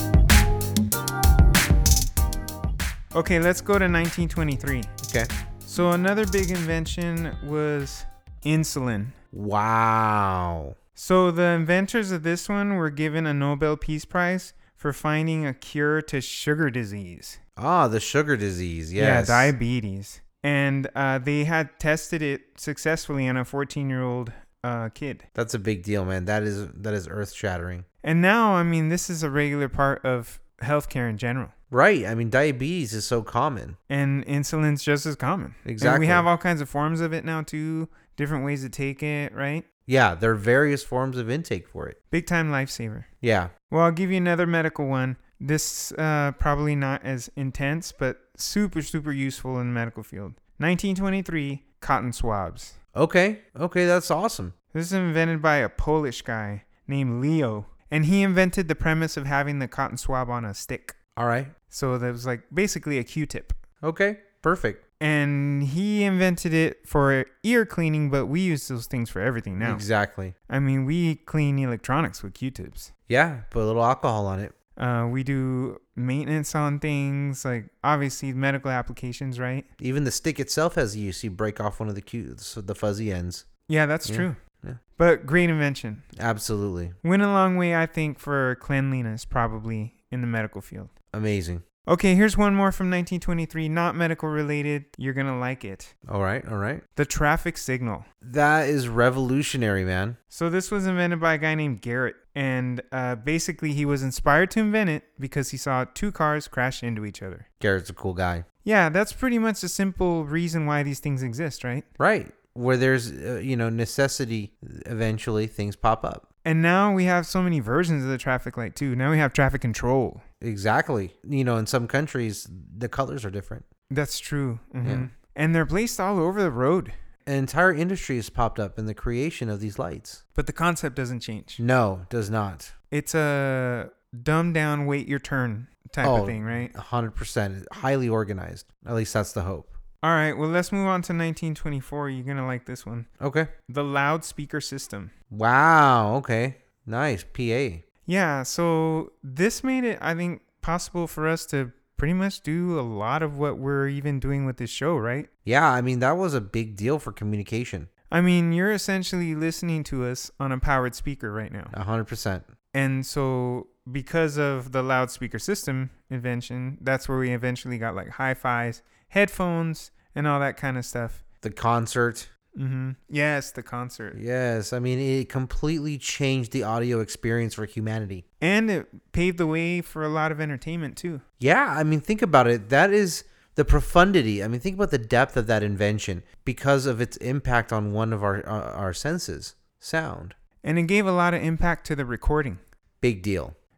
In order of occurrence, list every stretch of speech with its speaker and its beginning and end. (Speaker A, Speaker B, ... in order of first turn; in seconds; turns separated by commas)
Speaker A: 3.1-4.9, Speaker B: 5.0-5.3, Speaker A: 5.6-9.1, Speaker B: 9.3-10.7, Speaker A: 10.9-17.4, Speaker B: 17.6-19.5, Speaker A: 18.9-25.2, Speaker B: 25.3-27.9, Speaker A: 28.0-31.5, Speaker B: 31.7-33.8, Speaker A: 33.9-39.6, Speaker B: 35.6-36.3, Speaker B: 39.9-42.0, Speaker A: 42.1-43.1, Speaker B: 43.2-43.5, Speaker A: 43.7-52.8, Speaker B: 52.9-54.5, Speaker A: 54.7-61.0, Speaker B: 61.1-61.5, Speaker A: 61.7-63.6, Speaker B: 63.8-64.8, Speaker A: 65.0-69.8, Speaker B: 69.6-70.3, Speaker A: 70.5-72.9, Speaker B: 73.1-74.5, Speaker A: 74.8-79.7, Speaker B: 79.8-83.5, Speaker A: 83.7-84.4, Speaker B: 84.0-84.8, Speaker A: 85.0-86.0, Speaker B: 86.2-87.0, Speaker A: 87.0-90.9, Speaker B: 91.1-91.6, Speaker A: 91.8-95.9, Speaker B: 96.1-96.8, Speaker A: 97.0-98.0, Speaker B: 98.2-100.2, Speaker A: 100.3-107.4, Speaker B: 107.6-108.4, Speaker A: 108.6-111.9, Speaker B: 112.0-116.2, Speaker A: 116.4-120.2, Speaker B: 120.4-123.6, Speaker A: 123.9-126.9, Speaker B: 124.8-125.1, Speaker B: 127.2-130.2, Speaker A: 130.3-131.6, Speaker B: 131.6-132.7, Speaker A: 132.9-136.7, Speaker B: 136.0-139.8, Speaker A: 140.0-143.1, Speaker B: 143.2-143.5, Speaker A: 143.7-145.1, Speaker B: 145.3-147.8, Speaker A: 148.1-155.3, Speaker B: 155.4-157.9, Speaker A: 158.1-161.7, Speaker B: 161.7-162.5, Speaker A: 162.7-171.2, Speaker B: 171.4-172.3, Speaker A: 172.6-174.2, Speaker B: 174.1-178.2, Speaker A: 178.4-181.2, Speaker B: 181.4-190.3, Speaker A: 190.6-192.6, Speaker B: 193.0-193.6